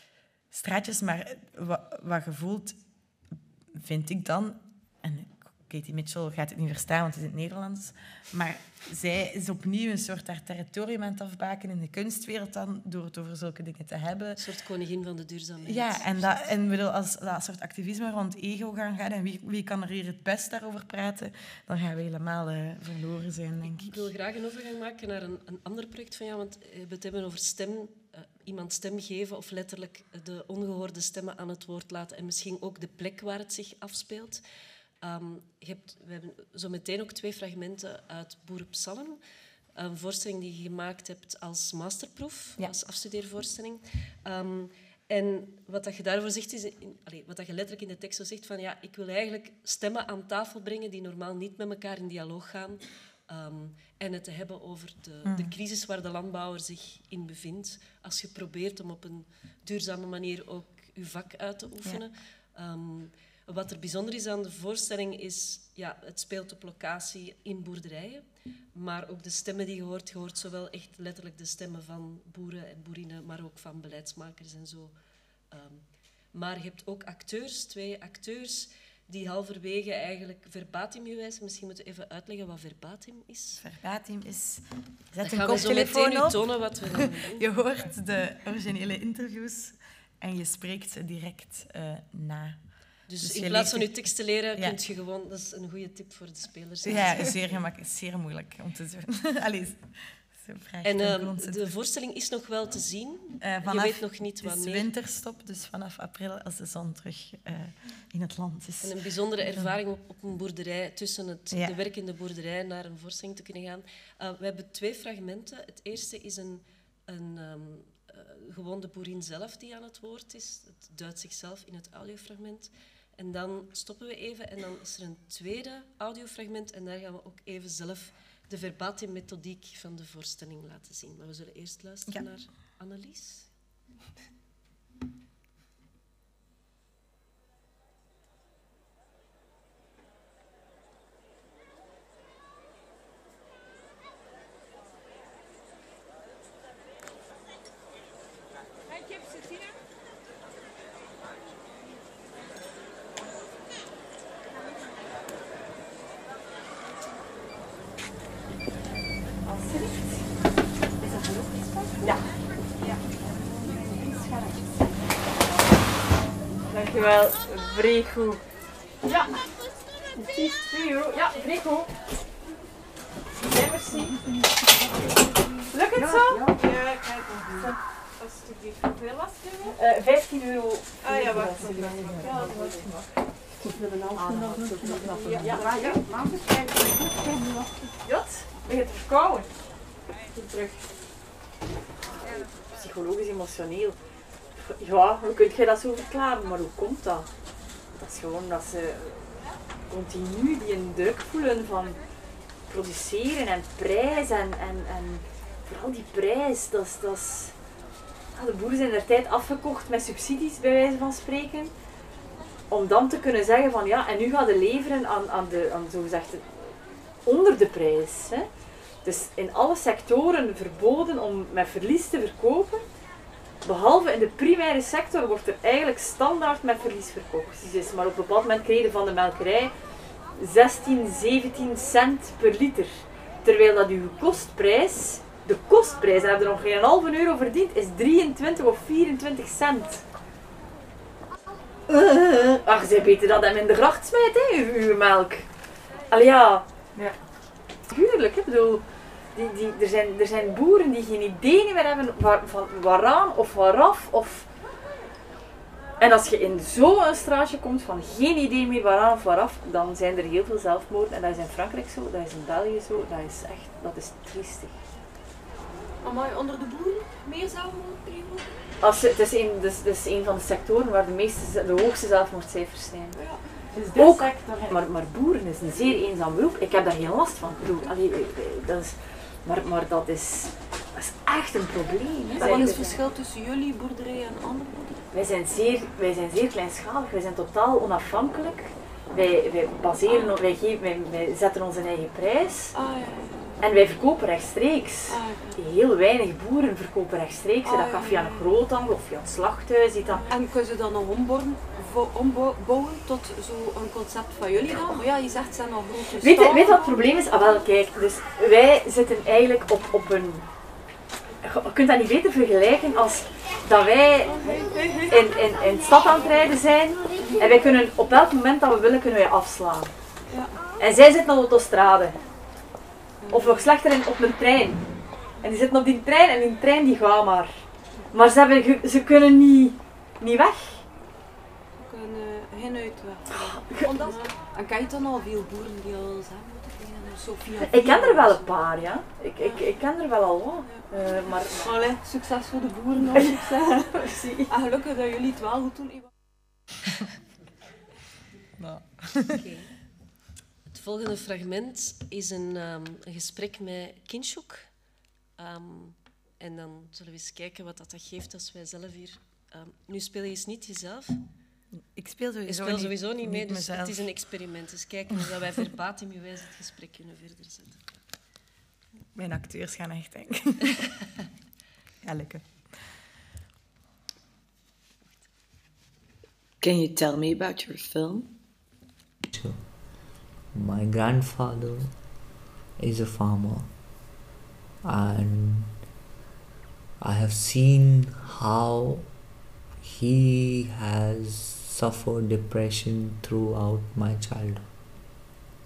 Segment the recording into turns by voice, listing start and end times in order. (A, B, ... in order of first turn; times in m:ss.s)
0:00.5-0:02.8 A
0:03.7-0:14.4 A
0:14.4-0:16.5 B
0:15.6-0:24.1 A
0:23.7-0:34.4 B
0:35.0-0:39.2 B
0:39.7-1:08.2 B
0:55.2-0:55.5 A
1:08.7-1:14.9 B
1:15.5-1:23.6 B
1:23.6-1:32.6 A
1:25.2-1:27.5 B
1:33.1-1:37.4 B
1:33.2-1:33.9 A
1:36.8-1:41.7 A
1:40.8-1:44.9 B
1:43.4-1:49.7 A
1:48.8-2:13.5 B
1:51.5-1:51.8 A
2:39.4-2:40.3 C
2:41.1-2:41.4 D
2:43.8-2:44.6 C
2:46.7-2:48.4 C
2:49.0-2:49.3 C
2:50.2-2:51.9 C
2:53.4-2:54.2 C
2:53.9-2:54.2 D
2:55.1-2:59.8 D
2:55.7-2:56.7 C
2:59.6-3:03.0 C
3:01.0-3:03.0 D
3:03.6-3:07.7 D
3:04.2-3:06.1 C
3:08.0-3:09.5 C
3:10.3-3:10.7 C
3:12.2-3:14.0 C
3:14.6-3:17.3 C
3:18.0-3:22.0 C
3:22.7-3:27.5 C
3:28.3-3:31.7 C
3:32.7-3:38.5 C
3:39.0-3:42.8 C
3:43.6-3:49.7 C
3:50.4-4:00.0 C
4:01.9-4:05.5 C
4:06.1-4:06.6 C
4:07.9-4:14.5 C
4:16.0-4:24.8 C
4:26.0-4:28.5 D
4:28.8-4:33.2 C
4:33.1-4:34.8 D
4:33.8-4:43.0 C
4:42.3-4:45.0 D
4:45.1-4:52.7 C
4:50.1-4:50.3 D
4:52.7-4:53.6 D
4:53.6-5:00.3 C
4:55.1-4:55.6 D
4:57.6-4:58.5 D
5:00.1-5:06.9 D
5:06.1-5:10.5 C
5:11.4-5:19.9 C
5:14.3-5:15.8 D
5:17.2-5:17.6 D
5:20.3-5:20.6 D
5:20.8-5:22.2 C
5:23.2-5:23.6 D
5:23.3-5:24.8 C
5:25.4-5:30.8 C
5:31.8-5:38.6 D
5:33.4-5:34.2 C
5:37.6-5:41.9 C
5:39.4-5:39.7 D
5:40.7-5:41.0 D
5:41.6-5:46.1 D
5:43.1-5:44.5 C
5:48.6-5:49.4 A
5:49.3-5:49.7 B
5:50.7-5:54.8 B
5:55.4-6:01.2 B
6:01.8-6:04.1 A
6:02.5-6:07.9 B
6:09.1-6:10.8 A
6:12.0-6:12.9 A
6:16.6-6:18.3 A
6:19.3-6:19.8 E
6:20.5-6:22.0 E
6:22.8-6:23.7 E
6:24.8-6:25.8 E
6:27.0-6:29.1 E
6:29.8-6:34.7 E